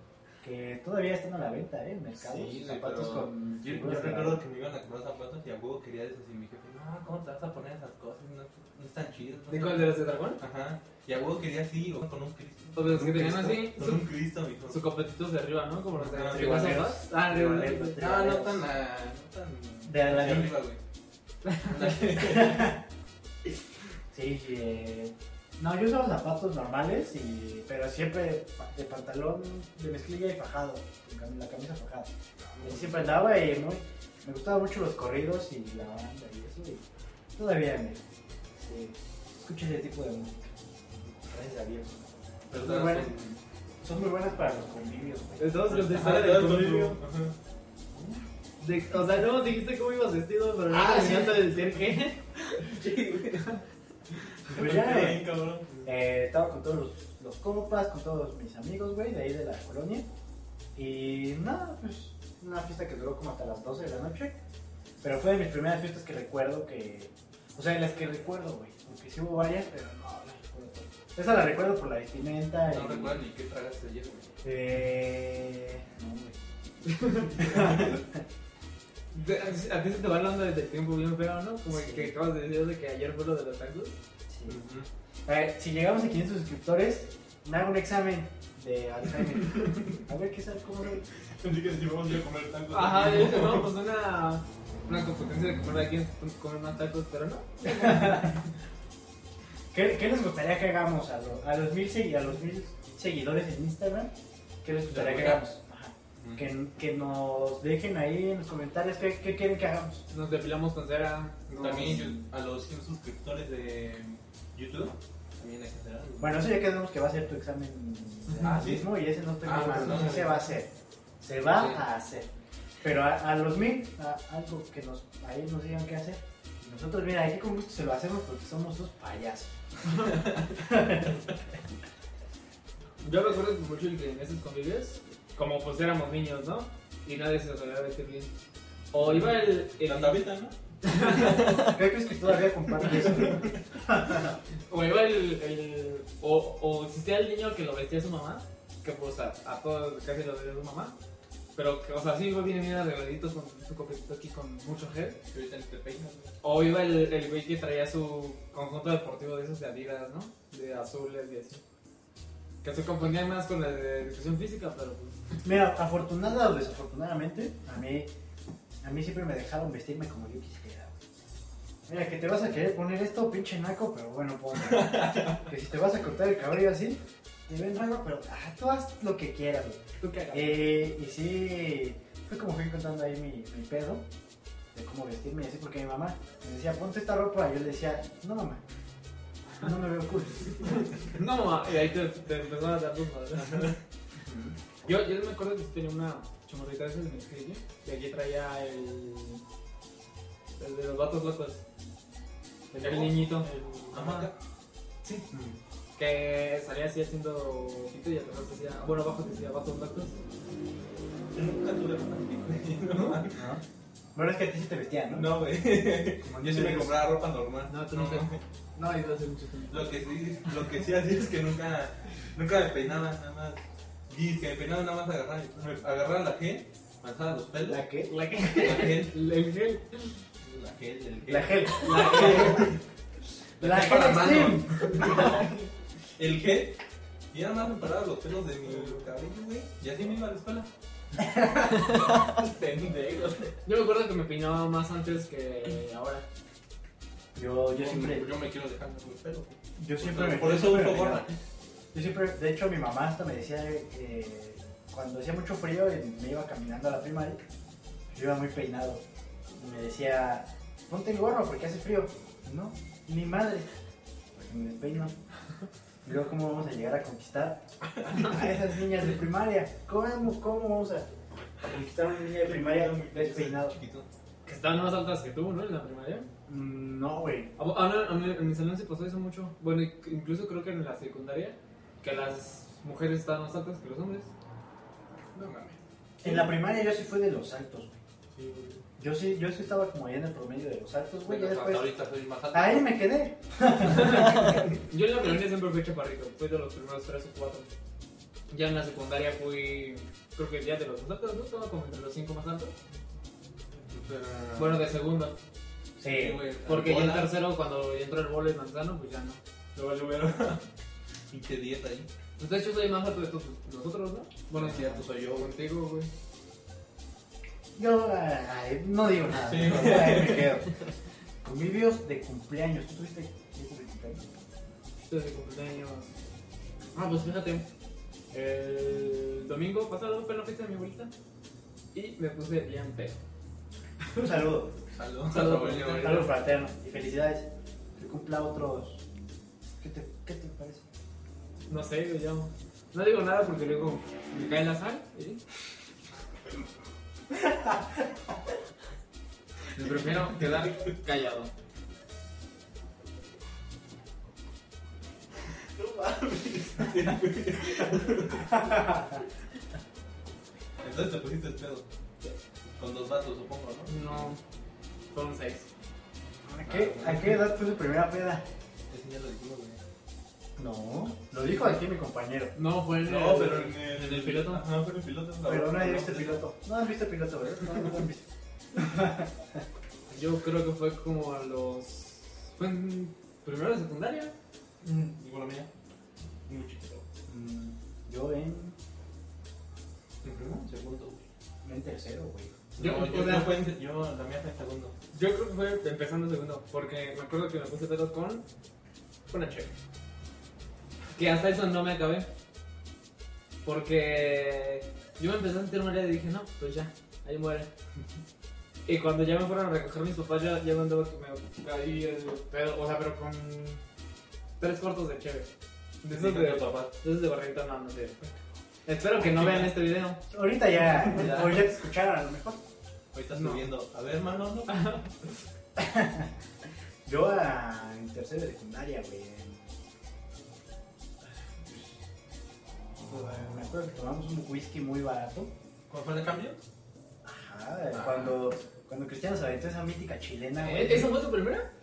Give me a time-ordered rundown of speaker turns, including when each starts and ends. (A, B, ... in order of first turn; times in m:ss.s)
0:00.4-0:04.4 A
0:02.2-0:14.8 B
0:09.5-0:10.4 C
0:12.7-0:14.0 C
0:14.7-0:18.0 C
0:16.0-0:16.8 B
0:16.3-0:18.7 A
0:18.0-0:20.8 B
0:19.9-0:20.5 A
0:21.6-0:22.8 B
0:22.2-0:22.8 A
0:24.1-0:36.8 A
0:32.4-0:33.1 B
0:37.4-0:38.0 A
0:38.6-0:40.5 A
0:41.3-0:43.1 A
0:42.5-0:43.4 B
0:43.8-0:46.8 A
0:45.4-0:47.0 C
0:45.7-0:47.3 B
0:48.6-0:52.2 C
0:50.7-0:51.7 A
0:52.6-0:53.6 B
0:54.4-0:55.8 B
0:54.4-0:55.2 A
0:55.8-1:00.1 A
1:00.7-1:04.4 A
1:05.0-1:13.2 A
1:12.6-1:14.4 B
1:14.4-1:16.4 A
1:17.3-1:18.0 B
1:17.4-1:18.2 A
1:19.1-1:24.0 C
1:21.7-1:22.1 A
1:24.3-1:24.6 A
1:24.5-1:24.9 B
1:25.2-1:31.0 A
1:29.6-1:29.9 B
1:31.4-1:33.7 B
1:32.7-1:38.3 C
1:37.6-1:38.4 A
1:39.7-1:44.1 A
1:44.6-1:50.0 A
1:44.9-1:45.5 B
1:46.2-1:46.5 B
1:50.1-1:52.0 C
1:51.5-1:56.4 B
1:56.2-2:02.3 A
1:58.4-1:58.9 B
1:59.4-2:00.5 B
2:02.8-2:11.3 A
2:13.0-2:18.3 C
2:18.9-2:20.2 C
2:19.0-2:20.5 B
2:20.9-2:21.4 C
2:21.6-2:24.3 A
2:24.7-2:30.9 C
2:31.5-2:35.2 C
2:35.3-2:36.4 B
2:36.4-2:41.6 C
2:42.6-2:45.2 C
2:45.4-2:48.1 A
2:48.8-2:50.9 A
2:51.9-2:59.8 A
2:54.6-2:55.4 B
3:00.0-3:00.7 C
3:00.3-3:04.0 A
3:04.7-3:08.6 A
3:09.6-3:10.8 A
3:11.1-3:13.7 C
3:14.2-3:14.5 A
3:14.8-3:19.4 C
3:20.6-3:21.6 C
3:22.7-3:24.3 C
3:22.8-3:24.3 B
3:25.0-3:25.6 A
3:26.0-3:30.2 C
3:31.3-3:33.4 B
3:32.9-3:33.2 C
3:33.3-3:33.6 A
3:34.1-3:35.3 A
3:35.1-3:38.4 B
3:36.2-3:37.0 A
3:37.7-3:40.0 C
3:39.7-3:47.8 B
3:47.7-3:48.1 A
3:48.1-3:50.2 C
3:48.5-3:49.1 B
3:50.4-3:52.8 B
3:51.2-3:52.7 A
3:51.7-3:52.7 C
3:53.6-3:55.6 B
3:53.6-3:55.4 A
3:55.0-3:55.5 C
3:56.2-3:56.8 B
3:57.3-4:03.6 B
4:03.6-4:06.2 C
4:07.3-4:08.3 A
4:07.7-4:11.4 B
4:09.8-4:11.2 A
4:11.9-4:17.4 A
4:18.1-4:19.0 A
4:19.6-4:23.7 A
4:24.3-4:25.1 A
4:26.0-4:31.1 A
4:31.6-4:33.8 A
4:32.3-4:34.0 B
4:34.4-4:36.3 C
4:36.5-4:37.5 A
4:37.6-4:44.3 C
4:45.3-4:45.8 B
4:46.2-4:48.0 A
4:48.4-4:48.7 C
4:48.4-4:48.8 B
4:49.0-4:51.9 A
4:51.2-4:53.0 B
4:52.5-4:54.6 A
4:53.8-4:57.7 C
4:58.5-5:02.7 C
5:03.9-5:04.9 B
5:04.6-5:05.3 C
5:06.0-5:06.4 A
5:06.0-5:07.3 B
5:06.6-5:09.4 C
5:09.7-5:10.6 B
5:11.3-5:12.1 B
5:12.4-5:16.1 C
5:14.5-5:15.5 B
5:17.7-5:20.7 A
5:19.3-5:20.6 B
5:21.4-5:24.2 A
5:25.0-5:26.1 C
5:26.9-5:27.7 C
5:28.3-5:31.1 C
5:31.9-5:33.2 C
5:34.2-5:34.8 A
5:34.9-5:36.2 B
5:35.3-5:36.3 C
5:35.9-5:39.0 A
5:39.6-5:40.8 A
5:41.7-5:45.4 C
5:49.7-5:51.5 C
5:50.3-5:50.7 B
5:55.8-5:58.6 B
5:58.5-5:59.2 A
6:00.8-6:01.8 B
6:02.8-6:04.2 B
6:03.9-6:04.4 C
6:05.1-6:05.7 C
6:06.4-6:08.4 A
6:06.6-6:07.5 B
6:08.9-6:09.8 B
6:10.6-6:12.5 A
6:12.5-6:14.6 C
6:13.0-6:16.4 B
6:15.4-6:18.2 A
6:18.7-6:19.6 A
6:20.1-6:24.3 C
6:24.8-6:25.7 B
6:26.4-6:27.0 B
6:27.3-6:28.8 A
6:30.2-6:31.3 B
6:31.6-6:32.6 A
6:32.8-6:33.6 C
6:32.8-6:34.9 B
6:35.1-6:38.4 C
6:39.3-6:39.7 C
6:41.1-6:42.3 C
6:43.6-6:47.7 C
6:48.9-6:53.8 C
6:54.6-6:55.5 C
6:56.0-6:58.2 C
6:56.1-6:56.9 B
6:58.9-7:00.2 C
6:59.2-6:59.8 B
7:00.3-7:02.6 A
7:01.1-7:01.7 B
7:03.1-7:04.9 B
7:03.3-7:03.6 C
7:04.7-7:05.1 C
7:05.8-7:06.3 A
7:07.0-7:09.7 A
7:11.2-7:12.0 A
7:13.1-7:15.5 A
7:15.9-7:16.6 B
7:17.2-7:21.3 A
7:17.9-7:18.4 B
7:20.6-7:21.7 C